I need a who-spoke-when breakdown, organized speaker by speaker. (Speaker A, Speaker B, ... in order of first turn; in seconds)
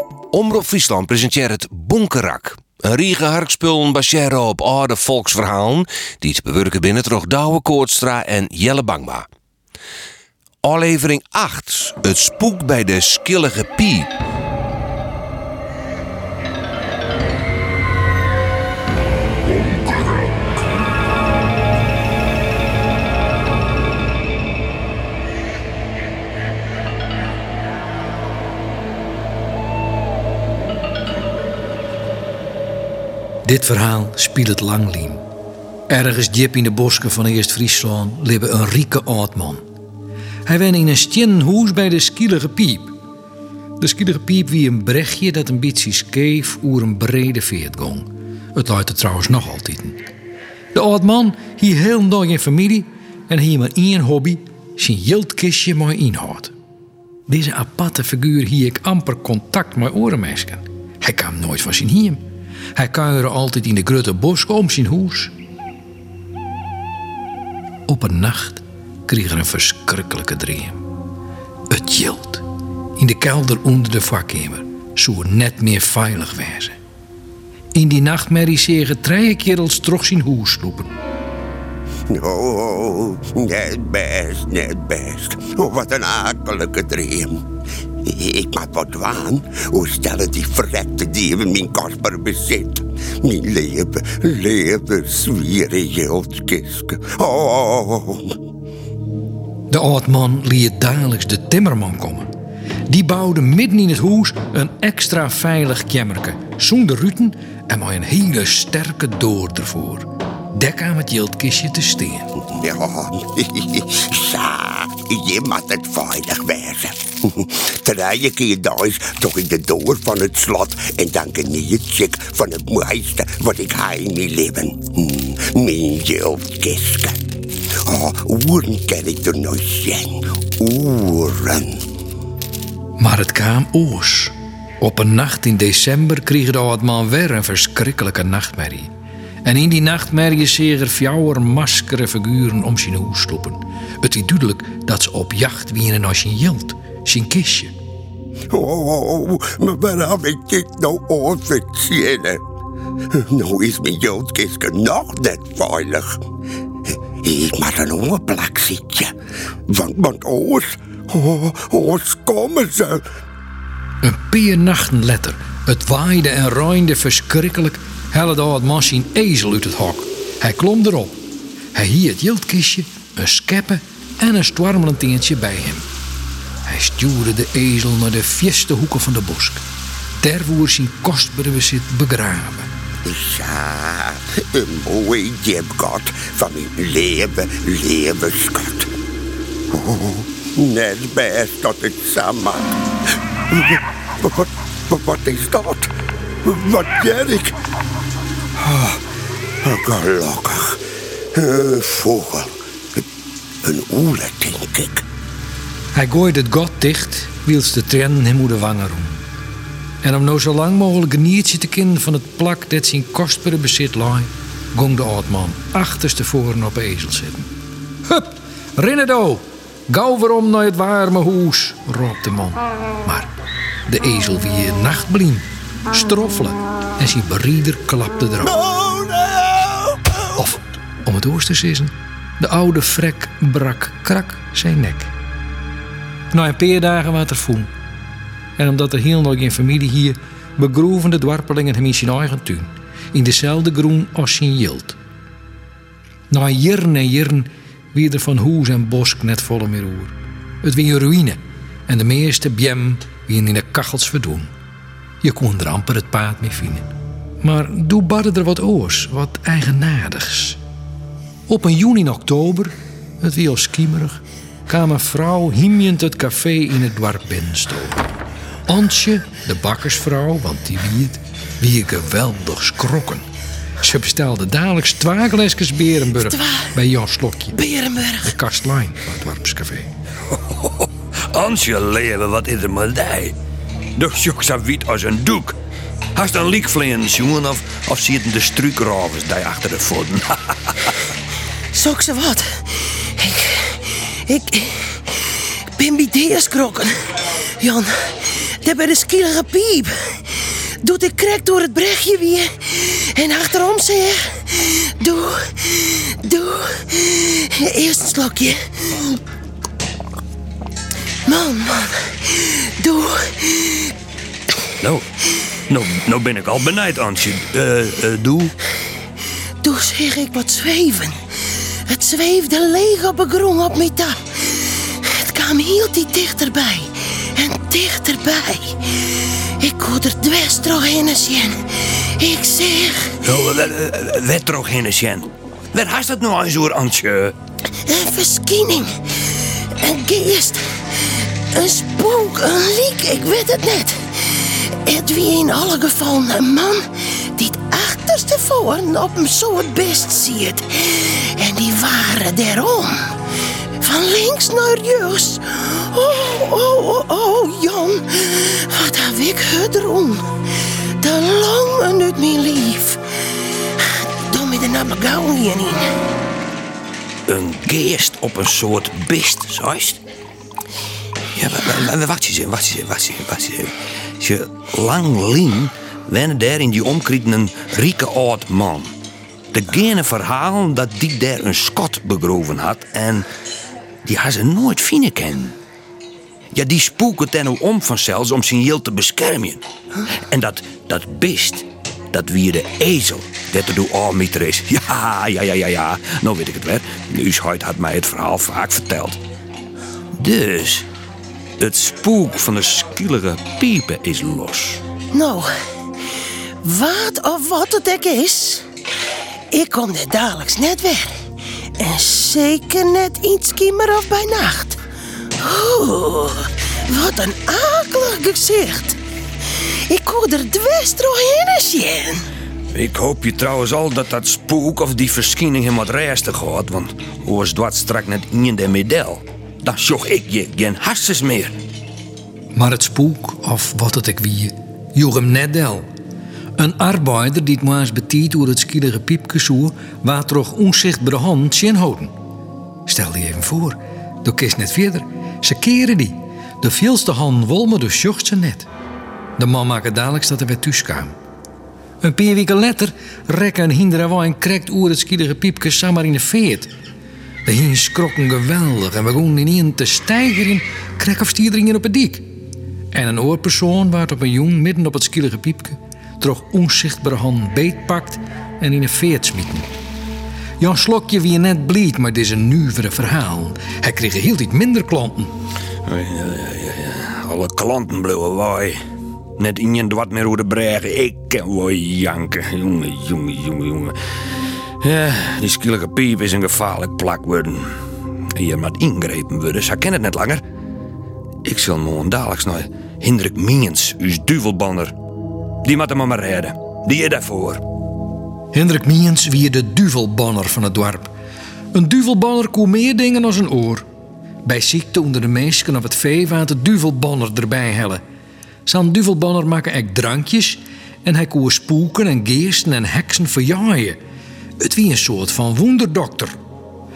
Speaker A: 0.3-9.3, 10.6-14.1
Speaker B: 33.4-35.2, 35.9-39.6, 40.5-42.9, 43.8-50.0, 50.7-56.5, 57.3-62.2, 62.7-65.3, 67.9-70.8, 71.7-72.4, 73.0-76.8, 77.7-80.9, 99.7-102.3, 102.9-112.3, 133.0-138.9, 139.4-147.7, 164.0-171.2, 171.7-175.8, 176.6-179.6, 180.2-182.7, 205.9-209.2, 210.0-217.5, 218.1-223.3, 223.9-228.8, 230.3-235.1, 236.3-237.7, 238.6-245.0, 246.3-254.5, 255.2-260.6, 261.5-268.0, 268.7-273.2, 273.8-277.6, 278.2-279.9, 432.5-435.9, 436.6-442.1, 442.9-448.7, 449.4-451.1, 452.0-456.7, 457.4-462.3, 462.9-469.7, 470.6-475.3, 498.5-501.1, 501.7-503.8, 504.4-508.0, 508.6-514.0, 514.6-516.4
Speaker C: 82.1-87.4, 88.0-98.3, 112.5-127.2, 127.8-131.8, 148.5-152.4, 153.2-156.2, 157.2-159.1, 159.7-163.0, 183.0-188.9, 189.7-192.8, 193.5-195.9, 196.4-197.5, 198.6-199.0, 199.6-200.8, 201.3-203.0, 203.6-205.0
Speaker D: 276.1-276.7, 277.5-278.3, 291.7-309.2, 311.2-313.9, 319.6-333.2, 337.8-365.9, 405.1-405.5, 406.6-408.6, 409.5-411.2, 411.8-414.8, 415.4-422.2
Speaker E: 280.5-283.3, 284.0-285.6, 286.1-290.9, 314.8-318.6, 333.2-337.3, 367.3-370.0, 371.3-378.9, 379.5-383.3, 384.0-385.6, 386.5-389.6, 390.3-399.2, 400.2-400.9, 401.6-404.8, 422.7-431.6, 475.9-478.8, 479.4-483.9, 484.8-487.7, 488.3-490.4, 491.4-494.9, 495.6-497.6